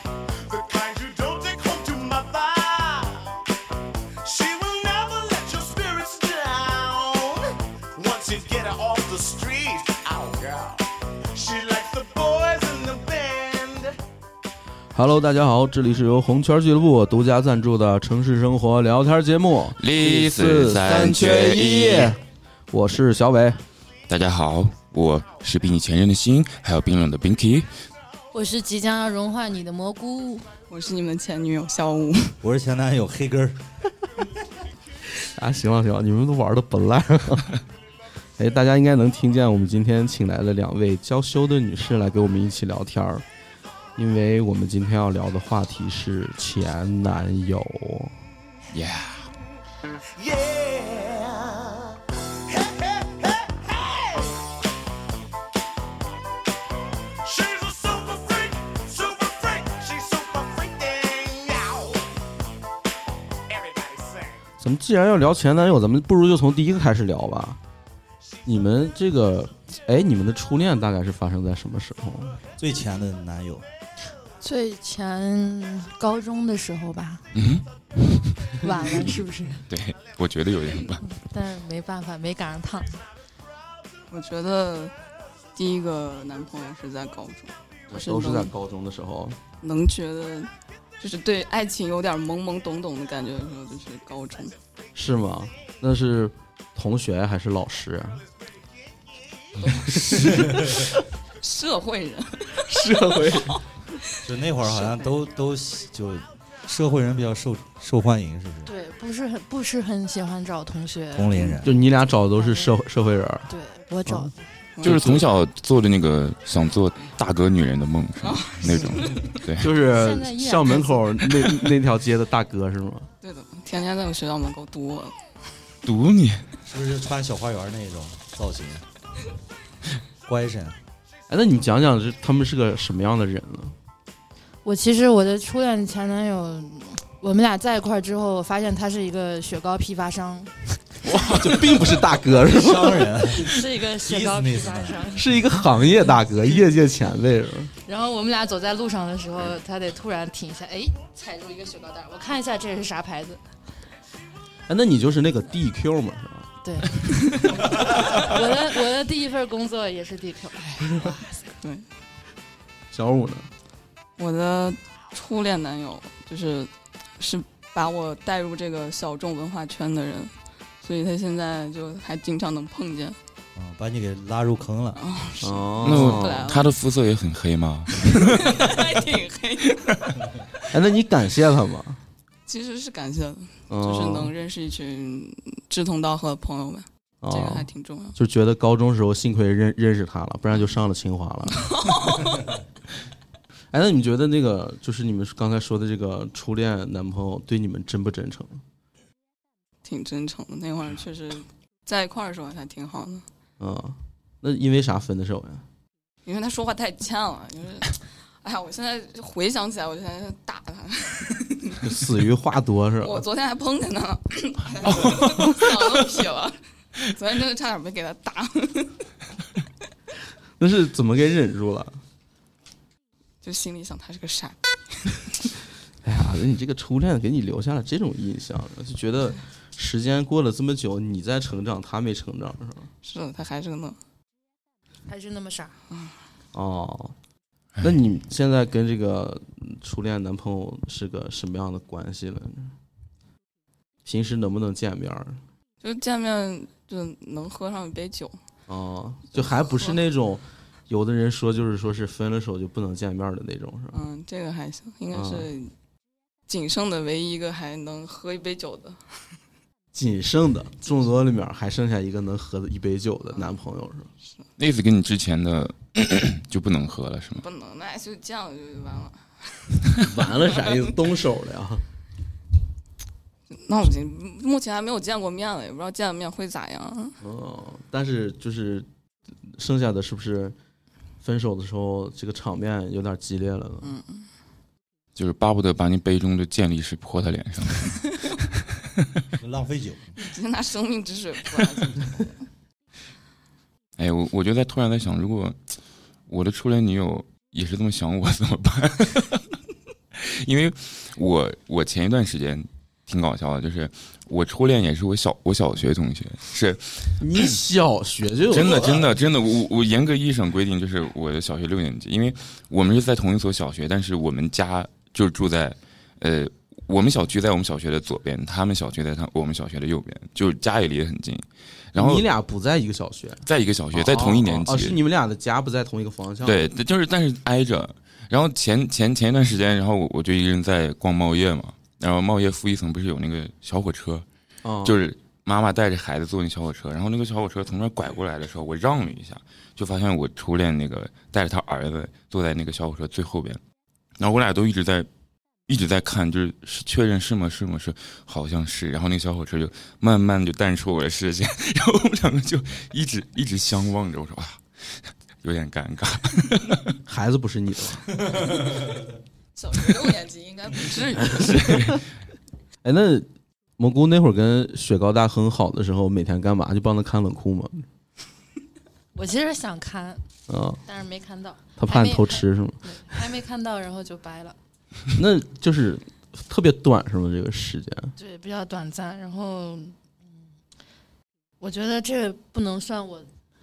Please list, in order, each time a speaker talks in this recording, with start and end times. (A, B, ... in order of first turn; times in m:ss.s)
0:00.5-0:03.4 A
0:04.2-0:14.0 A
0:14.9-0:23.6 B
0:19.8-0:22.2 C
0:24.1-0:27.7 C
0:28.3-0:30.5 D
0:30.7-0:32.4 E
0:32.4-0:33.6 F
0:35.2-0:37.6 B
0:38.4-0:43.2 B
0:44.0-0:48.2 B
0:48.7-0:49.3 C
0:50.2-0:54.4 A
0:57.2-1:02.1 A
1:03.5-1:04.4 A
1:04.6-1:07.6 B
1:08.4-1:12.4 B
1:12.6-1:13.6 F
1:14.4-1:17.3 D
1:17.3-1:18.5 C
1:18.6-1:19.6 D
1:19.7-1:21.1 C
1:21.1-1:23.0 D
1:24.1-1:24.9 E
1:25.6-1:28.5 E
1:27.9-1:29.4 B
1:29.6-1:34.6 E
1:34.9-1:38.2 B
1:39.6-1:40.9 B
1:40.2-1:40.6 F
1:41.4-1:43.5 E
1:42.7-1:43.6 B
1:44.2-1:48.7 F
1:48.6-1:52.8 D
1:51.1-1:51.8 F
1:51.6-1:53.5 B
1:53.5-1:54.4 D
1:54.0-1:55.3 B
1:54.8-1:55.0 E
1:54.8-1:59.7 C
1:58.2-1:59.4 E
1:59.6-2:03.1 B
1:59.9-2:01.2 D
2:03.2-2:05.2 E
2:05.8-2:06.5 C
2:06.6-2:08.8 F
2:10.2-2:10.8 F
2:11.3-2:13.7 B
2:14.6-2:20.8 D
2:21.0-2:23.1 B
2:22.4-2:25.2 F
2:23.3-2:25.2 D
2:25.1-2:27.7 B
2:27.8-2:33.4 D
2:34.7-2:36.5 B
2:36.6-2:41.4 D
2:37.2-2:37.6 E
2:41.6-2:41.9 E
2:42.9-2:43.5 B
2:44.2-2:50.3 E
2:50.8-2:53.2 E
2:53.6-2:55.0 F
2:54.9-2:56.7 E
2:55.4-2:56.6 B
2:55.8-2:58.8 C
2:58.0-3:00.4 E
3:00.7-3:02.0 B
3:02.5-3:08.2 E
3:03.7-3:04.3 B
3:07.2-3:12.0 B
3:11.6-3:12.4 E
3:13.7-3:18.6 B
3:19.8-3:23.2 E
3:23.6-3:25.6 B
3:26.2-3:32.0 E
3:31.8-3:33.2 B
3:33.0-3:39.1 E
3:34.9-3:35.6 C
3:40.6-3:42.0 B
3:43.4-3:45.2 E
3:46.0-3:52.9 B
3:53.0-3:54.0 E
3:55.1-3:55.8 D
3:55.9-3:56.2 E
3:56.5-3:57.1 B
3:57.8-4:02.7 B
4:04.0-4:05.4 B
4:05.8-4:08.4 E
4:08.7-4:14.0 B
4:09.4-4:10.0 E
4:13.9-4:15.7 E
4:15.1-4:15.5 B
4:16.5-4:19.0 E
4:19.9-4:24.1 B
4:23.3-4:23.6 E
4:24.6-4:27.4 C
4:27.4-4:30.9 E
4:30.0-4:31.8 B
4:33.5-4:37.2 E
4:37.2-4:38.9 B
4:39.5-4:40.6 B
4:41.2-4:43.9 B
4:43.8-4:44.3 E
4:45.1-4:48.2 C
4:49.4-4:50.1 F
4:50.2-4:52.3 E
4:54.0-4:55.6 C
4:56.3-4:59.5 C
5:00.2-5:07.4 C
5:07.2-5:09.1 B
5:08.5-5:22.3 C
5:08.6-5:09.0 F
5:22.0-5:26.7 B
5:23.4-5:25.0 C
5:26.4-5:34.2 C
5:34.6-5:35.0 B
5:34.8-5:43.6 C
5:44.2-5:45.1 C
5:45.7-5:57.0 C
5:57.0-5:58.4 B
5:59.6-6:01.6 E
6:01.4-6:02.0 B
6:01.4-6:02.0 C
6:02.8-6:03.3 B
6:03.8-6:07.9 B
6:09.1-6:10.2 D
6:10.5-6:10.8 B
6:10.8-6:14.6 D
6:11.8-6:12.8 B
6:15.1-6:18.1 B
6:18.2-6:20.1 D
6:21.6-6:23.3 D